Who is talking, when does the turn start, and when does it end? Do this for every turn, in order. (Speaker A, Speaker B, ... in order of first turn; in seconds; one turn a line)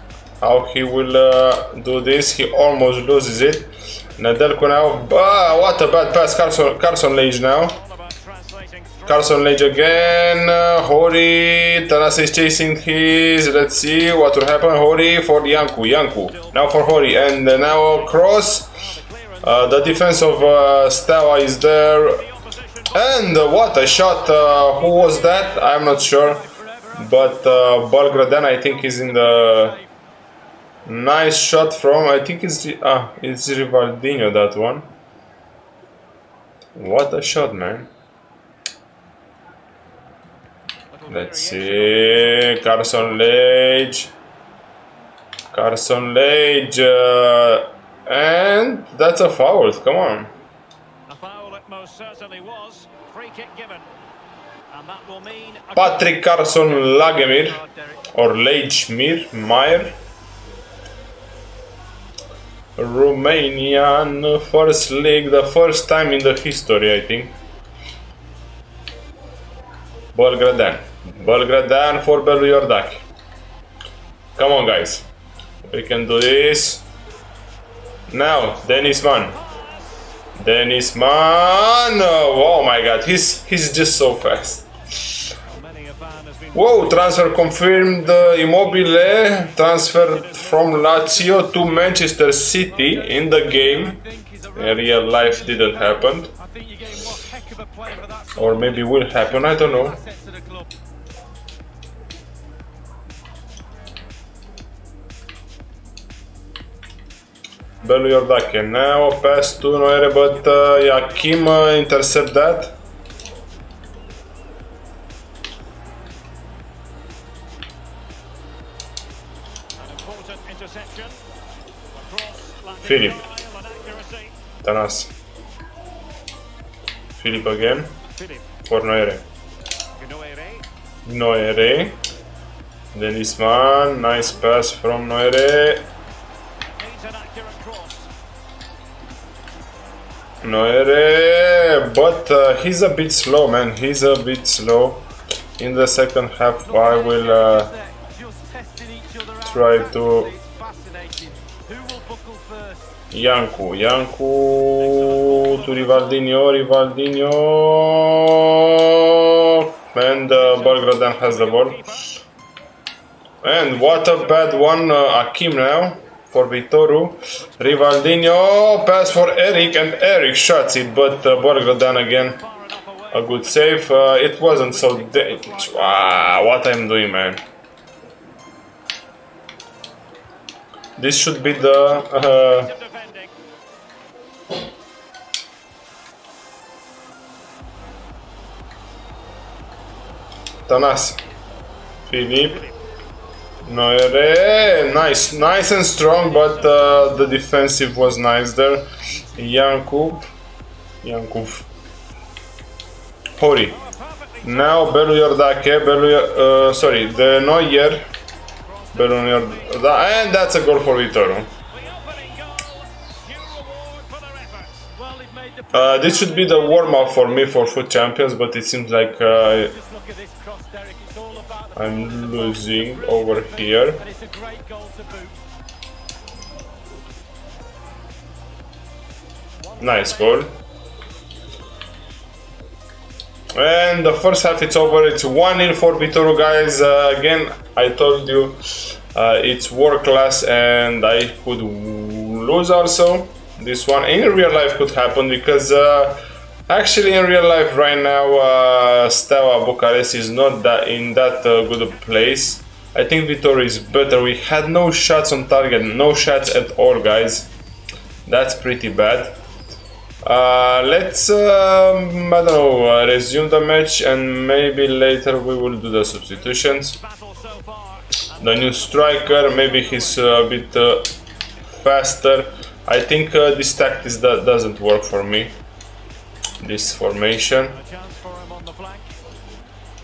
Speaker A: 0.4-7.8
Speaker B: 7.7-9.8
Speaker A: 9.1-18.7
Speaker B: 15.5-20.8
Speaker A: 19.4-22.3
Speaker B: 21.8-23.5
Speaker A: 22.9-26.4
Speaker C: 25.5-29.9
Speaker A: 27.0-29.8
Speaker A: 30.9-34.9
Speaker A: 36.8-37.9
Speaker B: 40.9-42.9
Speaker A: 41.1-44.1
Speaker A: 45.5-50.3
Speaker B: 51.1-53.9
Speaker B: 54.7-56.4
Speaker A: 55.8-57.6
Speaker C: 56.9-58.2
Speaker A: 58.1-60.0
Speaker A: 62.8-67.3
Speaker A: 70.2-73.0
Speaker A: 74.4-75.0
Speaker A: 75.7-76.8
Speaker A: 78.1-79.4
Speaker B: 79.0-80.1
Speaker A: 80.4-85.2
Speaker B: 85.5-91.7
Speaker A: 86.5-94.0
Speaker C: 92.5-100.7
Speaker A: 94.6-96.3
Speaker A: 98.4-100.0
Speaker A: 107.8-112.8
Speaker B: 119.8-121.2
Speaker B: 121.9-124.4
Speaker A: 122.8-123.3
Speaker A: 124.6-125.1
Speaker A: 127.2-128.0
Speaker B: 128.1-128.6
Speaker A: 128.7-129.2
Speaker B: 130.0-130.7
Speaker A: 131.1-132.0
Speaker A: 132.9-135.9
Speaker B: 136.7-138.1
Speaker A: 140.4-145.1
Speaker A: 145.6-147.7
Speaker C: 146.7-152.9
Speaker A: 149.5-150.3
Speaker A: 153.1-161.8
Speaker B: 154.9-156.1
Speaker B: 160.3-162.2
Speaker A: 163.4-172.4
Speaker B: 163.7-164.6
Speaker B: 171.7-176.3
Speaker A: 173.1-177.4
Speaker A: 181.0-182.7
Speaker B: 181.4-183.3
Speaker A: 190.7-191.2
Speaker A: 192.1-192.6
Speaker B: 192.4-192.8
Speaker A: 193.7-200.3
Speaker B: 195.7-197.6
Speaker A: 201.0-201.7
Speaker A: 203.4-203.8
Speaker B: 203.7-205.2
Speaker A: 204.4-208.1
Speaker B: 208.6-210.9
Speaker A: 208.9-211.5
Speaker B: 211.5-214.7
Speaker C: 215.0-217.7
Speaker A: 215.7-219.7
Speaker C: 219.4-225.4
Speaker A: 221.8-224.0
Speaker B: 229.6-230.5
Speaker A: 229.8-230.5
Speaker A: 233.5-257.5
Speaker B: 234.5-236.6
Speaker A: 258.3-259.4
Speaker A: 260.2-267.0
Speaker B: 266.7-270.7
Speaker A: 268.4-271.1
Speaker A: 271.8-275.5
Speaker A: 276.6-277.8
Speaker B: 277.6-279.2